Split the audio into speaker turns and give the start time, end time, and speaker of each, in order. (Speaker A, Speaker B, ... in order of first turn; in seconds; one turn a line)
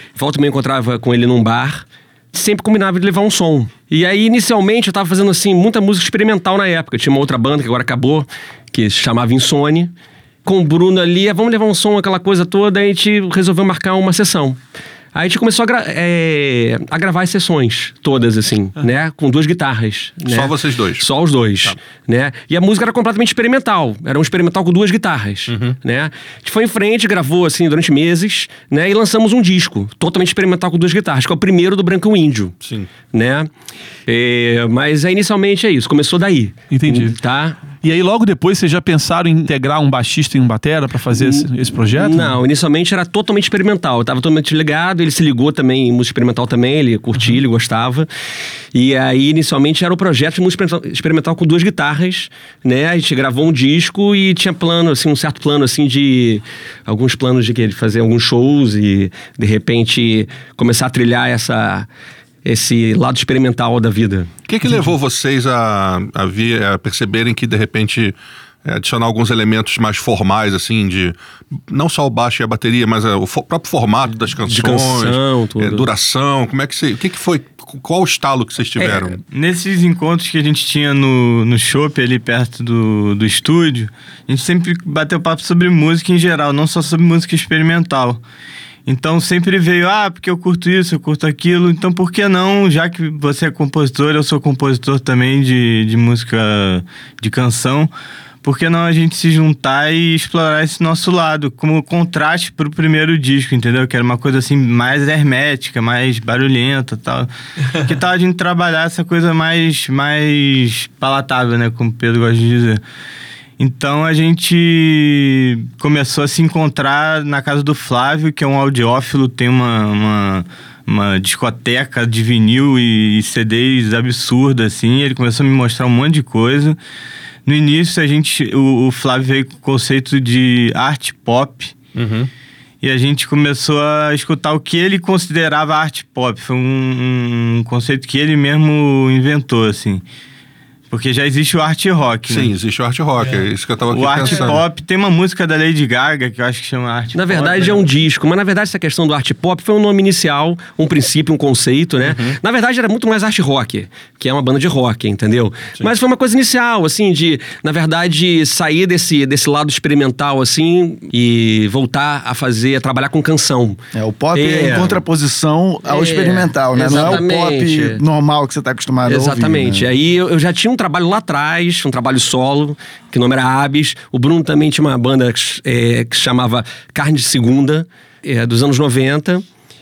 Speaker A: 0.1-9.9
Speaker A: 10.4-14.6
Speaker A: 15.1-32.5
Speaker B: 20.2-21.8
Speaker B: 25.5-25.8
Speaker B: 32.6-32.9
Speaker A: 33.1-33.5
Speaker A: 34.1-37.6
Speaker C: 36.7-37.2
Speaker C: 37.8-42.4
Speaker A: 41.1-48.1
Speaker A: 48.7-61.9
Speaker A: 62.4-64.3
Speaker B: 64.5-79.2
Speaker C: 64.6-64.9
Speaker A: 74.4-75.9
Speaker A: 78.8-79.2
Speaker D: 79.3-88.2
Speaker D: 88.8-97.9
Speaker D: 98.4-112.8
Speaker D: 113.6-126.8
Speaker D: 127.5-131.7
Speaker B: 131.9-132.3
Speaker D: 132.8-140.0
Speaker D: 140.9-142.5
Speaker B: 142.3-144.6
Speaker D: 143.9-147.9
Speaker A: 144.2-144.6
Speaker A: 147.1-163.8
Speaker B: 152.0-152.4
Speaker E: 163.9-169.9
Speaker A: 164.3-165.0
Speaker A: 165.8-168.0
Speaker A: 169.0-179.4